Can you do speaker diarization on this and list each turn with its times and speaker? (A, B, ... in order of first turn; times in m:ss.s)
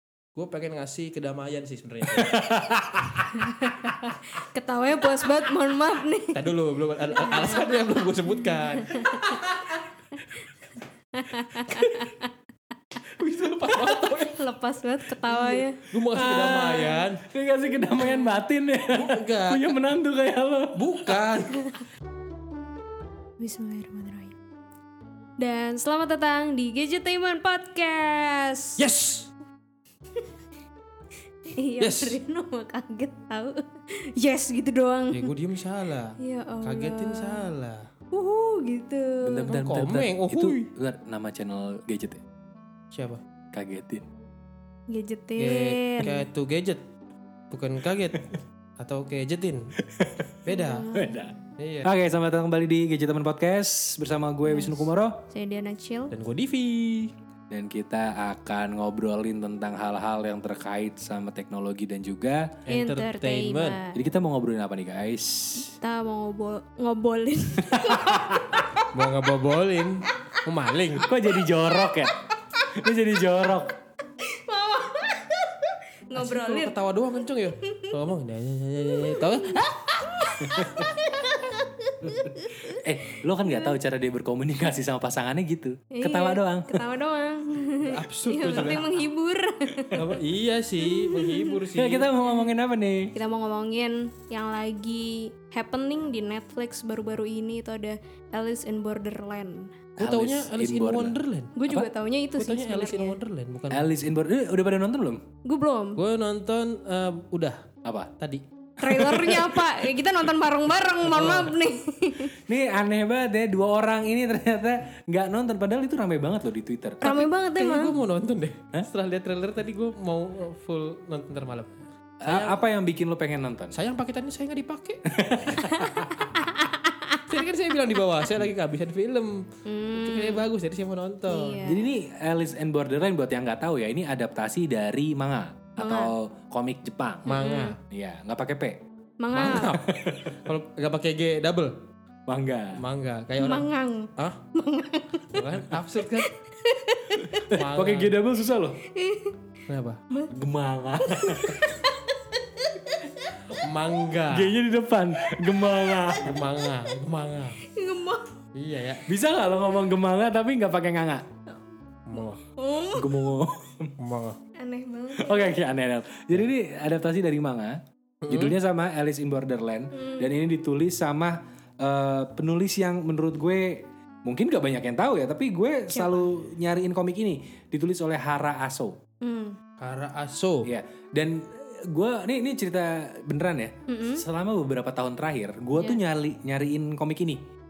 0:00.4-0:02.4 A
0:02.2-0:03.3 B
0:03.4-0:06.5 C
0:06.3-0:09.6 A
0:07.3-0:07.6 C
0:08.8-0:09.3 C
0:11.2-0:12.3 C
0:13.2-0:14.4 A
0:14.3-0:15.8 C
0:15.3-0:17.2 A
0:16.1-0:21.2 B
0:18.0-0:18.4 C
0:18.9-0:19.8 A
0:20.8-0:21.7 A
0:23.4-0:24.4 C
0:25.4-0:28.8 C
0:28.8-0:29.3 A
0:31.5-0:35.3 C
0:31.8-0:32.2 A
0:35.1-0:37.9 A
0:36.2-0:37.5 C
0:38.1-0:39.5 C
0:39.2-0:42.2 B
0:39.5-0:40.7 A
0:42.9-0:43.2 A
0:43.5-0:44.1 B
0:44.9-0:46.2 C
0:45.4-0:46.8 A
0:47.5-0:49.8 A
0:49.8-0:50.4 B
0:50.4-0:50.9 A
0:50.5-0:51.4 C
0:50.9-0:55.2 B
0:51.6-0:51.9 A
0:54.5-0:54.8 C
0:55.3-0:56.1 C
0:56.1-0:57.1 A
0:57.5-1:02.5 B
1:02.7-1:03.8 A
1:02.7-1:04.0 C
1:03.9-1:05.8 B
1:05.8-1:08.4 C
1:07.6-1:08.7 B
1:08.9-1:11.1 A
1:11.0-1:12.2 B
1:12.7-1:13.8 B
1:14.2-1:16.8 C
1:16.2-1:19.7 A
1:17.6-1:17.9 C
1:19.0-1:22.8 C
1:20.4-1:20.9 B
1:22.6-1:26.8 B
1:25.9-1:30.0 C
1:27.8-1:29.0 A
1:29.9-1:32.1 A
1:30.8-1:31.6 C
1:31.7-1:33.2 B
1:32.2-1:32.5 C
1:33.2-1:39.8 C
1:40.0-1:41.9 B
1:40.0-1:41.6 A
1:41.6-1:43.2 C
1:42.4-1:43.9 A
1:43.7-1:45.3 B
1:45.4-1:46.0 C
1:46.0-1:47.7 A
1:47.8-1:48.1 B
1:48.2-1:48.4 A
1:48.8-1:50.0 B
1:48.8-1:52.4 C
1:51.1-1:51.5 B
1:51.1-1:51.5 A
1:52.4-1:57.0 B
1:57.0-1:58.0 C
1:57.0-2:02.6 A
2:02.2-2:03.8 B
2:03.7-2:05.9 A
2:05.1-2:06.3 B
2:05.8-2:07.2 C
2:07.3-2:11.6 A
2:09.7-2:10.4 C
2:11.3-2:11.9 C
2:11.6-2:18.8 B
2:15.8-2:16.1 C
2:17.3-2:17.8 A
2:17.3-2:17.7 C
2:19.2-2:19.8 C
2:19.3-2:21.8 A
2:19.9-2:20.5 B
2:22.3-2:22.8 B
2:22.8-2:24.4 A
2:23.4-2:27.4 C
2:25.3-2:26.3 A
2:27.4-2:28.8 B
2:27.5-2:28.1 A
2:28.9-2:29.4 C
2:29.7-2:30.0 A
2:30.3-2:31.8 B
2:31.0-2:33.3 C
2:33.5-2:34.5 A
2:34.3-2:36.4 B
2:36.2-2:37.6 A
2:37.6-2:38.3 C
2:38.6-2:39.0 A
2:39.1-2:41.3 B
2:42.1-2:42.4 A
2:42.5-2:43.3 C
2:42.9-2:43.9 B
2:44.0-2:44.4 A
2:44.6-2:45.6 C
2:45.1-2:59.0 B
2:48.2-2:48.6 A
2:49.9-2:50.3 C
2:55.9-2:56.3 C
2:59.2-2:59.6 C
2:59.8-3:00.7 A
3:00.6-3:07.4 B
3:03.9-3:04.2 C